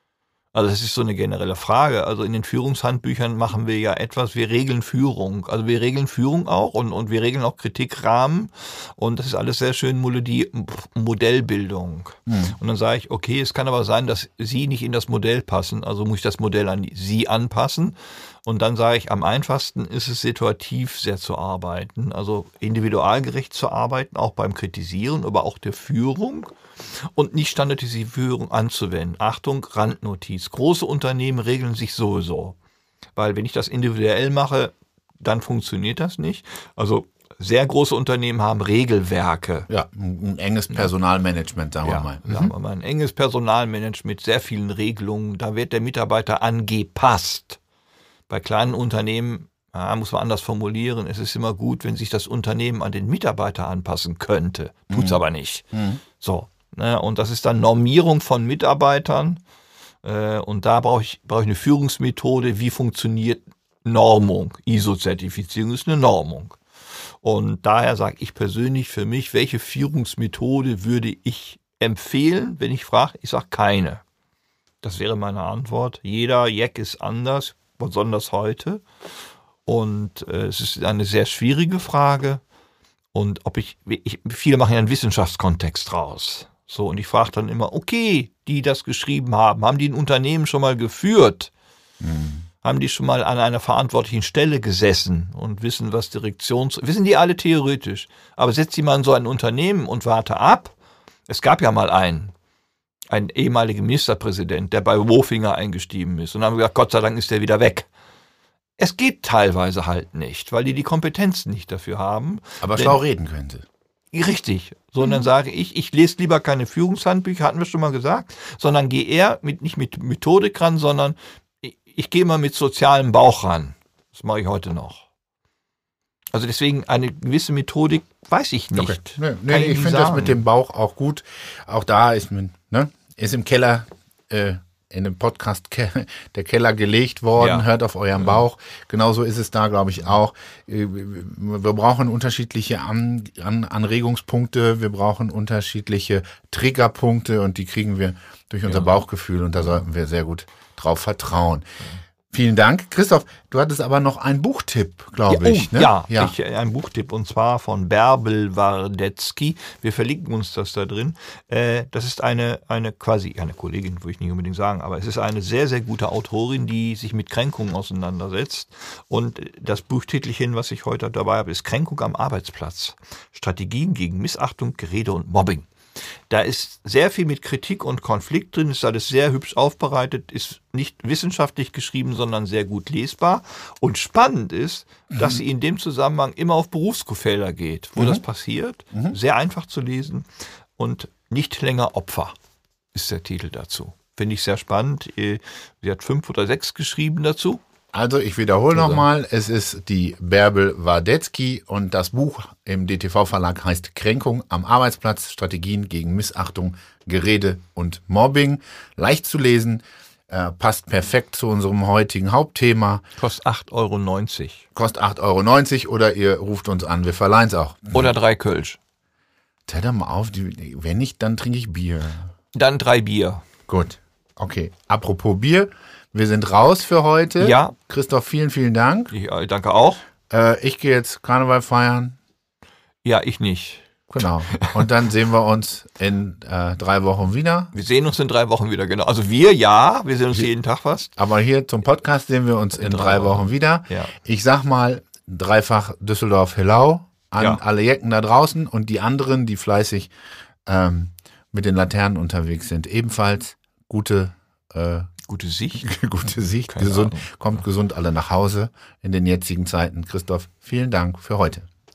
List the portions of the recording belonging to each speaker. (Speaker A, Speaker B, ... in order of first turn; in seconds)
Speaker A: 0.5-32.5, 33.1-39.7, 41.8-47.6, 48.3-59.4, 60.0-66.6, 67.2-74.0, 74.8-78.8, 79.7-82.4, 83.1-91.5, 92.6-100.7, 101.3-102.3, 103.1-107.9, 108.8-113.0, 114.1-125.0, 126.3-130.4, 137.4-137.7, 155.3-175.7, 176.3-192.4, 192.9-197.6, 198.7-199.0, 213.2-214.6, 217.9-218.8, 222.5-223.4, 227.4-227.7, 229.1-230.0, 233.0-233.9, 234.5-234.8, 237.7-241.1, 242.8-244.1, 255.3-255.9, 256.7-257.3
Speaker B: 12.3-12.6, 39.7-42.5, 54.9-56.0, 92.0-92.4, 112.6-113.7, 128.7-151.7, 152.3-156.3, 185.1-185.4, 188.0-188.2, 197.9-213.0, 214.7-218.1, 219.7-222.3, 223.7-229.1, 230.3-232.2, 234.1-237.7, 241.2-250.1, 250.7-255.1, 255.8-261.7